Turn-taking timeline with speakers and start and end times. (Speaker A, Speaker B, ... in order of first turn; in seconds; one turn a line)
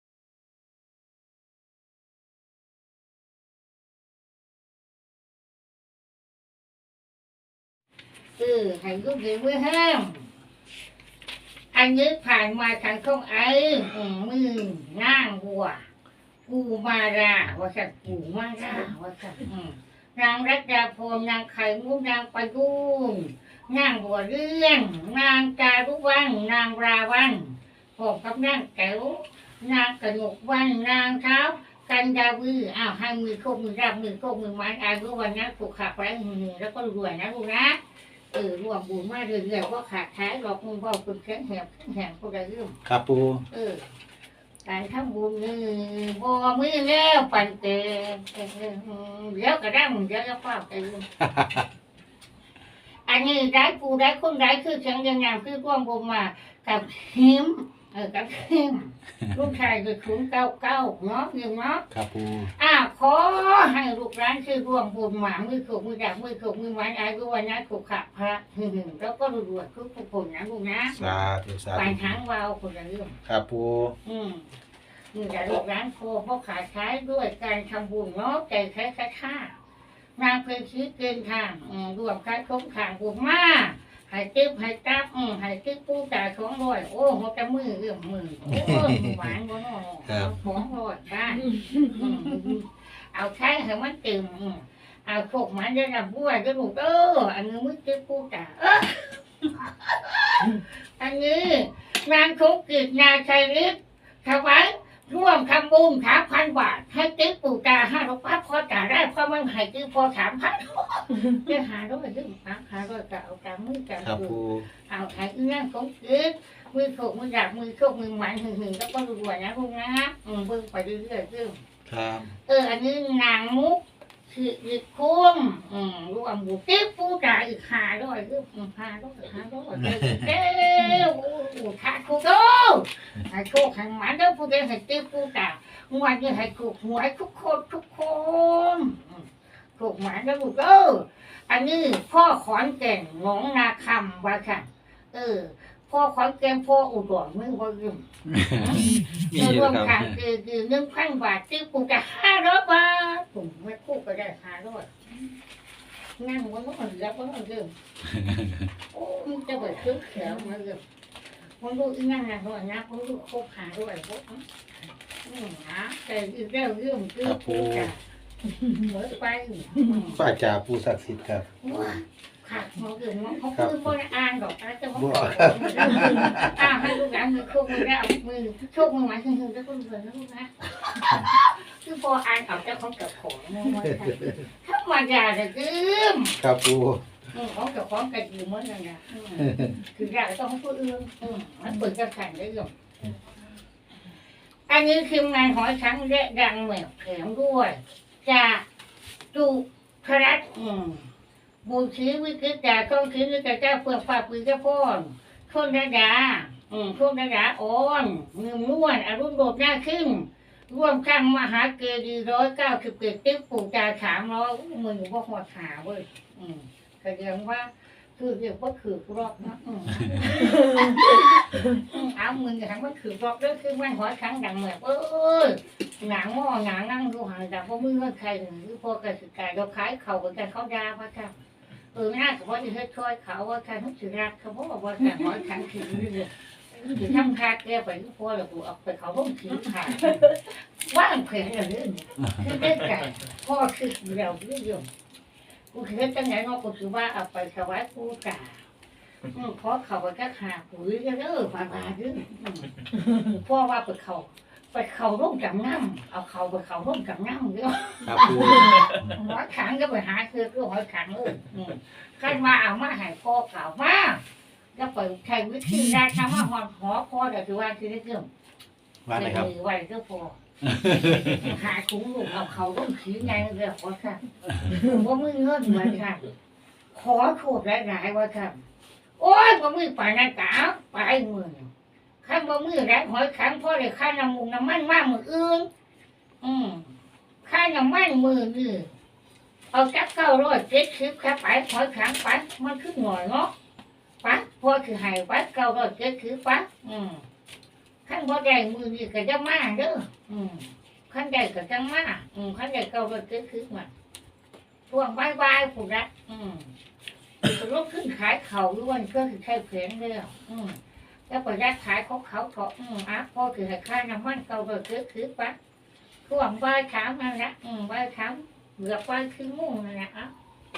Speaker A: 8.4-10.3
Speaker A: 11.7-15.8
Speaker A: 16.5-37.8
Speaker A: 38.3-42.8
Speaker B: 42.9-43.4
Speaker A: 43.5-43.9
Speaker A: 44.6-51.0
Speaker B: 51.2-51.6
Speaker A: 53.0-61.8
Speaker B: 61.9-62.5
Speaker A: 62.5-71.2
Speaker B: 70.9-72.2
Speaker A: 71.7-73.2
Speaker B: 73.3-73.9
Speaker A: 74.0-74.5
Speaker A: 75.1-79.5
Speaker A: 80.2-121.6
Speaker B: 88.6-89.2
Speaker B: 114.0-114.6
Speaker B: 121.9-122.3
Speaker A: 122.5-154.9
Speaker B: 129.8-130.2
Speaker B: 148.3-150.1
Speaker A: 156.2-157.7
Speaker B: 158.2-158.5
Speaker A: 158.9-160.8
Speaker A: 161.6-164.4
Speaker A: 165.2-168.0
Speaker B: 167.2-167.9
Speaker A: 168.6-170.2
Speaker B: 170.1-171.4
Speaker A: 171.6-186.4
Speaker B: 173.5-173.8
Speaker B: 174.9-176.8
Speaker B: 186.4-187.0
Speaker A: 187.3-192.7
Speaker B: 189.4-189.8
Speaker A: 194.7-198.7
Speaker A: 199.3-201.1
Speaker A: 201.6-231.3
Speaker A: 231.9-244.9
Speaker A: 245.7-248.6
Speaker A: 249.3-264.2
Speaker B: 258.0-258.9
Speaker A: 264.8-268.3
Speaker B: 269.1-269.5
Speaker A: 269.1-270.4
Speaker B: 270.6-271.4
Speaker A: 271.0-276.3
Speaker A: 276.9-278.6
Speaker A: 279.2-281.7
Speaker A: 282.2-285.7
Speaker A: 286.4-286.9
Speaker A: 287.4-288.9
Speaker A: 289.7-293.5
Speaker A: 294.2-297.2
Speaker A: 298.1-303.9
Speaker A: 304.9-306.7
Speaker A: 307.4-315.6
Speaker A: 316.2-320.3